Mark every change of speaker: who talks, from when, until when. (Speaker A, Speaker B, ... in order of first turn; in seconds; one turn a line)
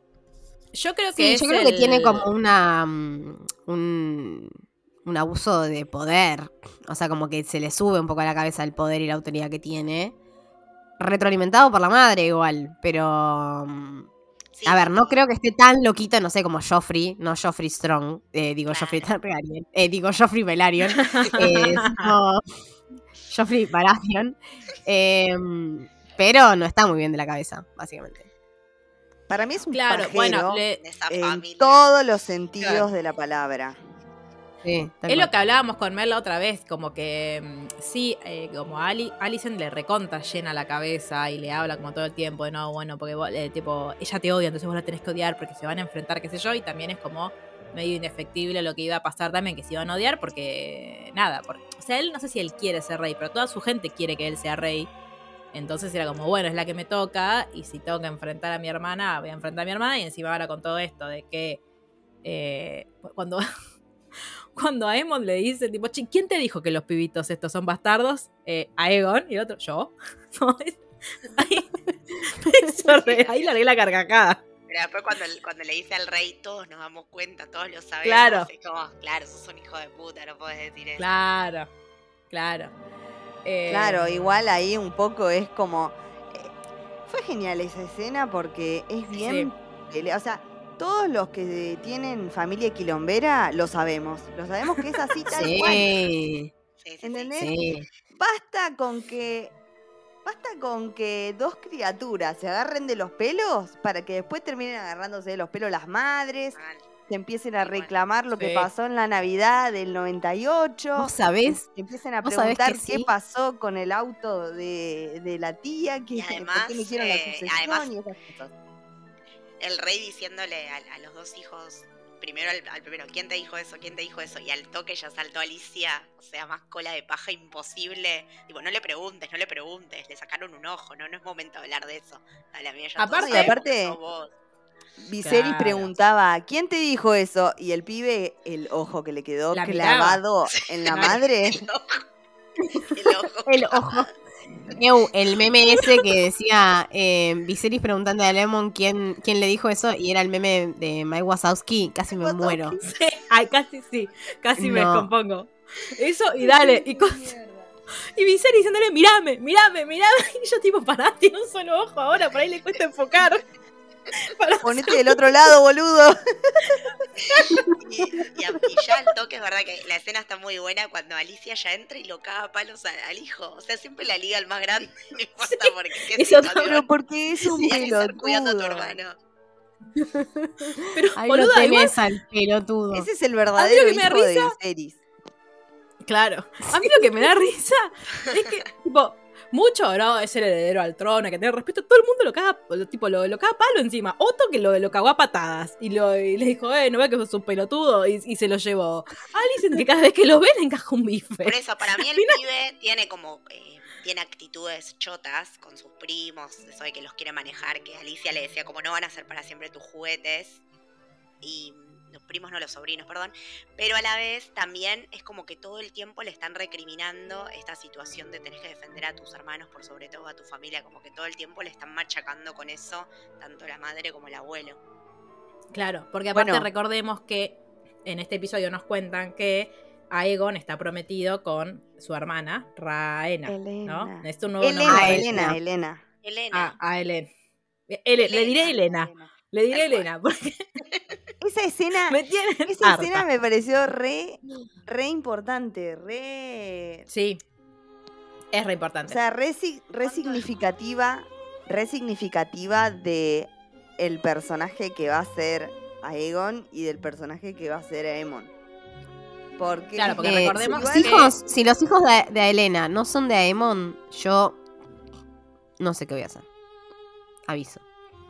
Speaker A: 0.8-2.3
Speaker B: 1.2-10.2
Speaker B: 11.0-14.1
Speaker C: 14.6-15.2
Speaker B: 14.7-22.6
Speaker C: 18.7-19.1
Speaker A: 21.0-22.1
Speaker B: 23.3-28.3
Speaker D: 29.3-33.8
Speaker A: 29.7-30.8
Speaker C: 30.8-31.9
Speaker C: 32.6-32.9
Speaker B: 34.6-35.3
Speaker A: 35.1-54.9
Speaker A: 55.5-61.6
Speaker A: 62.2-63.5
Speaker A: 64.5-74.4
Speaker C: 74.7-81.1
Speaker A: 78.0-78.5
Speaker A: 81.0-81.7
Speaker A: 82.3-82.7
Speaker A: 83.5-84.4
Speaker D: 83.7-86.5
Speaker D: 87.1-96.0
Speaker A: 89.2-89.5
Speaker B: 95.3-96.5
Speaker C: 96.8-97.5
Speaker D: 97.0-97.5
Speaker B: 97.4-97.8
Speaker D: 98.1-99.5
Speaker D: 100.3-118.5
Speaker C: 106.5-106.9
Speaker C: 107.6-107.9
Speaker A: 108.4-108.7
Speaker B: 111.0-111.7
Speaker B: 112.2-113.1
Speaker C: 116.1-117.9
Speaker C: 119.6-134.3
Speaker D: 133.0-134.0
Speaker A: 133.1-133.6
Speaker D: 135.0-141.6
Speaker A: 135.2-135.9
Speaker A: 139.5-140.2
Speaker C: 140.5-142.0
Speaker A: 140.9-141.2
Speaker C: 142.9-144.1
Speaker B: 143.5-144.1
Speaker B: 144.8-152.8
Speaker D: 152.2-152.9
Speaker A: 152.8-157.3
Speaker B: 154.6-155.1
Speaker D: 156.4-157.7
Speaker A: 158.2-163.4
Speaker A: 164.2-165.2
Speaker D: 164.6-166.8
Speaker C: 167.8-176.9
Speaker A: 175.4-176.8
Speaker D: 176.6-179.0
Speaker C: 177.5-179.2
Speaker B: 180.1-183.1
Speaker A: 180.9-182.0
Speaker D: 182.9-185.0
Speaker A: 183.6-184.5
Speaker A: 186.1-202.4
Speaker B: 186.7-187.1
Speaker C: 201.4-210.6
Speaker C: 211.4-224.8
Speaker A: 225.7-235.5
Speaker D: 226.3-226.7
Speaker D: 233.5-236.0
Speaker B: 234.8-235.6
Speaker C: 236.2-236.8
Speaker A: 236.5-237.3
Speaker A: 237.9-240.6
Speaker C: 238.2-238.7
Speaker D: 238.6-239.3
Speaker C: 239.7-240.1
Speaker D: 241.4-247.1
Speaker A: 242.1-243.3
Speaker A: 247.1-247.4
Speaker A: 248.5-249.2
Speaker D: 249.1-258.5
Speaker C: 250.1-250.4
Speaker D: 259.6-261.3
Speaker A: 260.0-261.3
Speaker B: 260.2-264.6
Speaker B: 265.8-266.5
Speaker B: 267.5-267.8